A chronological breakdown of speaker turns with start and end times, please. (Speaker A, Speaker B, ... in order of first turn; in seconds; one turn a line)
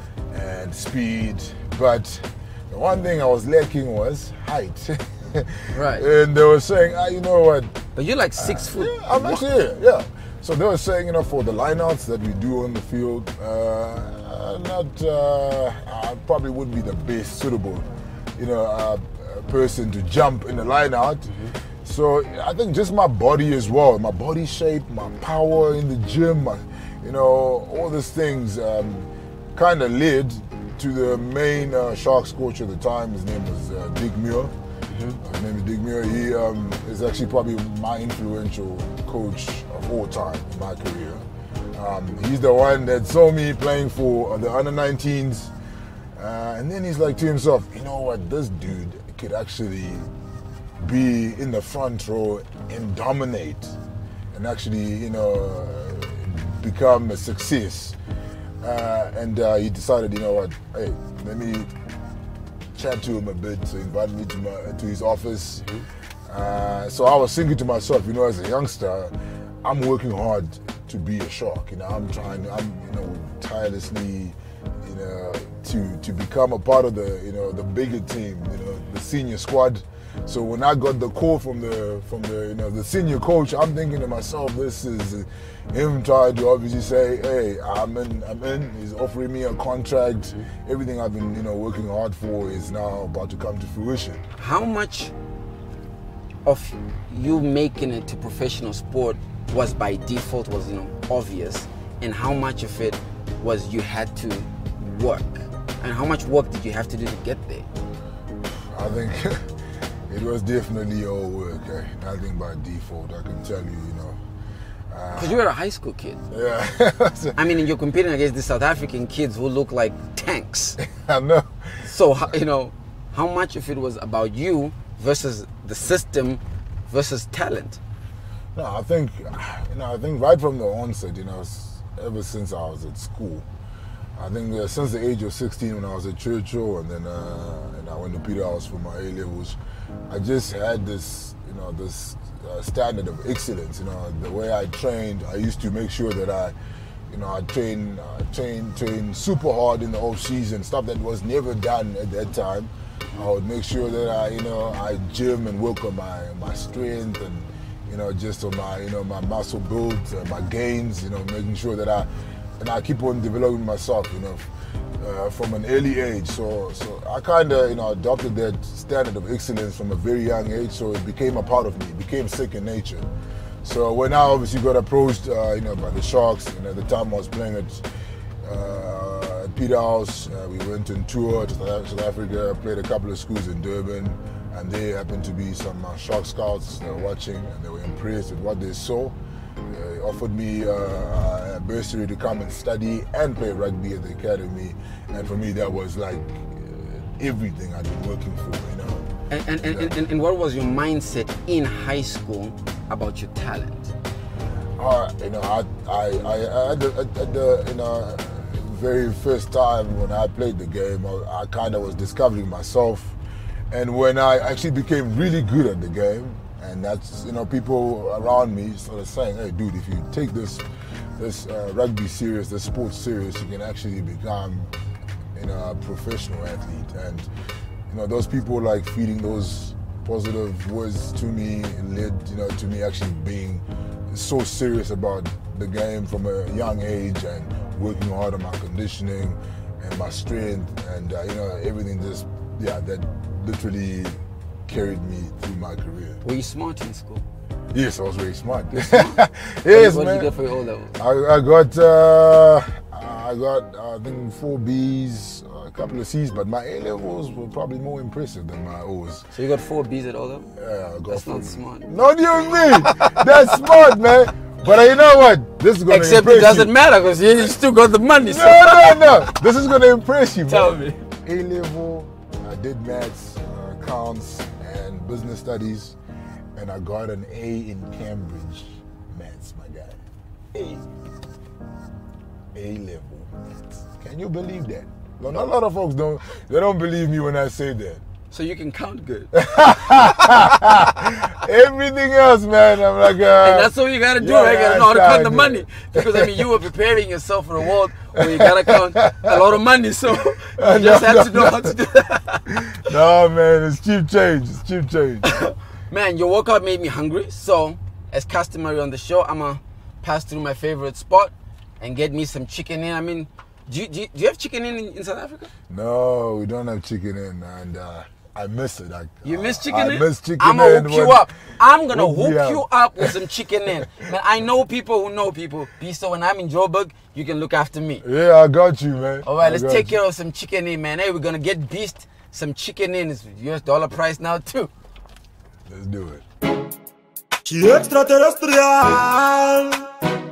Speaker A: 0.3-7.8
Speaker B: 5.7-6.1
Speaker B: 8.0-9.4
Speaker A: 8.4-21.3
Speaker B: 21.3-21.6
Speaker A: 21.8-34.5
Speaker B: 34.9-35.2
Speaker A: 35.2-45.5
Speaker A: 46.2-50.1
Speaker A: 50.8-53.8
Speaker A: 54.3-58.0
Speaker A: 58.6-61.7
Speaker A: 62.8-65.7
Speaker B: 65.6-65.9
Speaker A: 66.3-94.2
Speaker B: 94.4-95.1
Speaker B: 96.5-107.7
Speaker A: 108.5-114.2
Speaker A: 114.9-115.4
Speaker B: 115.1-116.2
Speaker A: 116.3-117.4
Speaker B: 117.4-120.8
Speaker A: 120.8-122.3
Speaker B: 121.8-127.8
Speaker A: 128.6-133.5
Speaker A: 134.2-139.6
Speaker A: 140.1-146.6
Speaker A: 147.1-173.1
Speaker A: 173.6-177.9
Speaker A: 178.4-199.1
Speaker B: 199.3-203.9
Speaker A: 199.6-200.0
Speaker A: 204.8-213.2
Speaker A: 213.7-220.7
Speaker A: 221.2-224.7
Speaker A: 225.3-227.3
Speaker A: 227.9-246.2
Speaker B: 246.2-247.3
Speaker A: 247.7-250.3
Speaker B: 248.7-251.0
Speaker A: 251.0-259.3
Speaker B: 259.3-260.5
Speaker A: 260.6-266.7
Speaker B: 261.1-261.9
Speaker B: 262.6-263.5
Speaker B: 265.9-269.4
Speaker A: 268.2-276.0
Speaker B: 270.5-271.1
Speaker A: 276.6-280.0
Speaker A: 280.5-280.9
Speaker A: 282.5-288.0
Speaker B: 288.3-290.5
Speaker A: 289.3-296.4
Speaker B: 293.3-302.5
Speaker A: 298.2-299.4
Speaker A: 300.6-301.8
Speaker A: 302.5-305.4
Speaker B: 305.2-315.5
Speaker A: 315.7-321.3
Speaker B: 319.2-328.1
Speaker A: 321.9-323.2
Speaker A: 328.0-330.0
Speaker B: 329.2-334.7
Speaker A: 335.7-336.2
Speaker C: 337.4-339.9